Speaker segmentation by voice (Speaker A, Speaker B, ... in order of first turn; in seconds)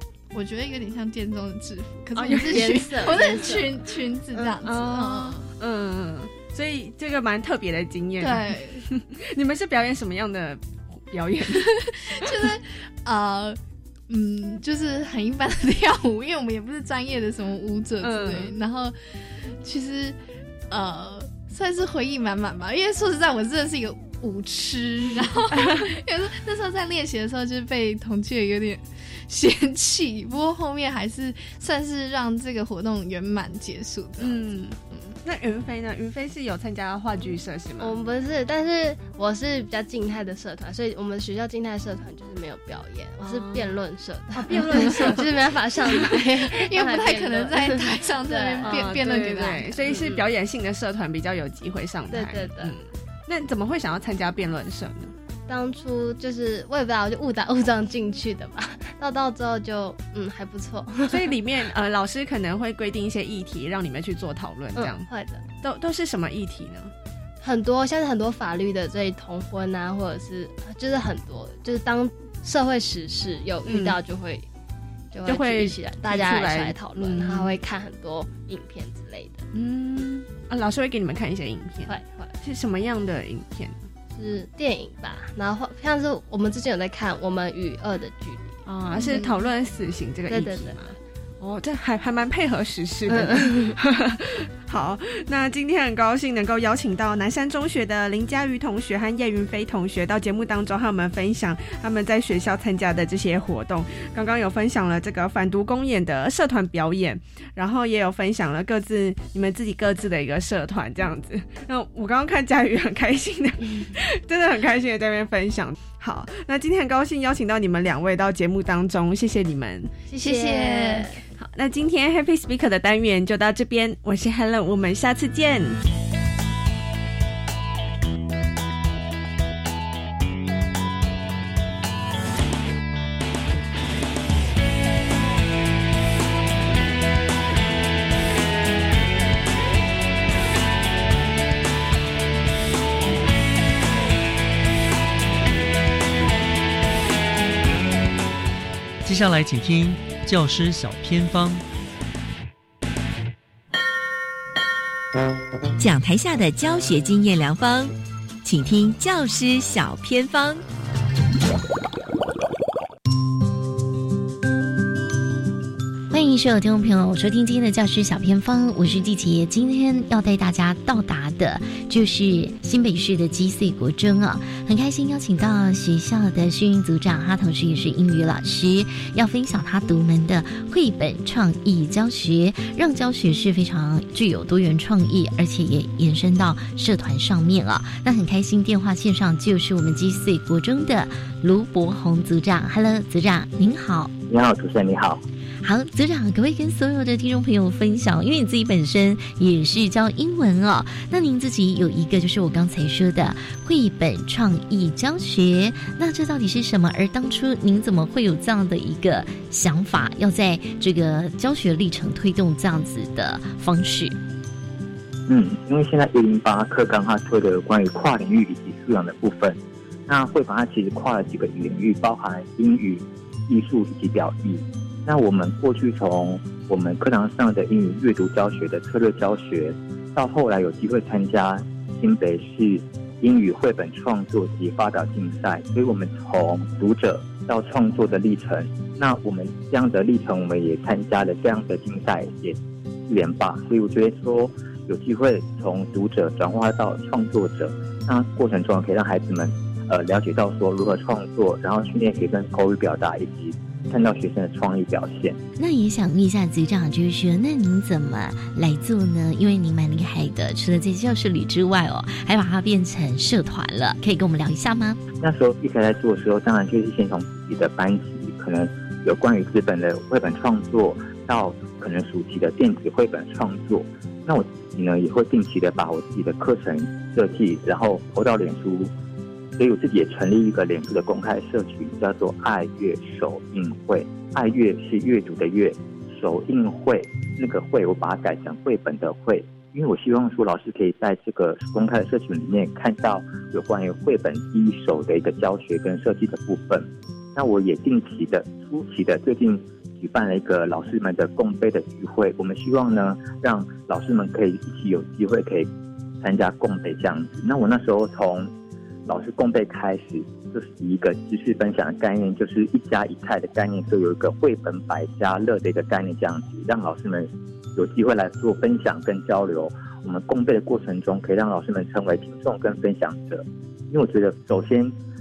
Speaker A: 0.3-5.5, 8.2-8.8, 11.5-13.6, 14.1-18.9, 19.6-20.2, 20.7-34.4, 44.7-45.2, 46.5-49.8, 120.2-121.1
Speaker B: 2.1-4.6, 37.8-48.9, 49.9-50.2, 52.1-52.7, 55.5-61.3, 64.8-65.4, 67.4-74.5, 75.1-79.4, 81.9-82.3, 84.1-89.3, 90.3-90.8, 93.1-93.7, 120.1-121.2
Speaker C: 2.2-3.2, 4.6-12.5, 18.0-18.5, 25.5-25.9, 34.2-37.9, 43.2-43.7, 44.3-45.3, 48.6-55.1, 61.1-65.0, 65.6-66.9, 73.7-74.0, 75.2-77.5, 79.5-83.8, 88.7-119.9, 121.4-125.8
Speaker D: 149.0-151.6
Speaker E: 155.8-157.9, 158.4-160.6
Speaker F: 166.1-194.1, 195.6-214.2, 255.6-265.0
Speaker G: 194.3-195.2, 215.3-255.4, 265.2-278.9, 279.6-305.7, 306.2-308.5, 309.1-324.9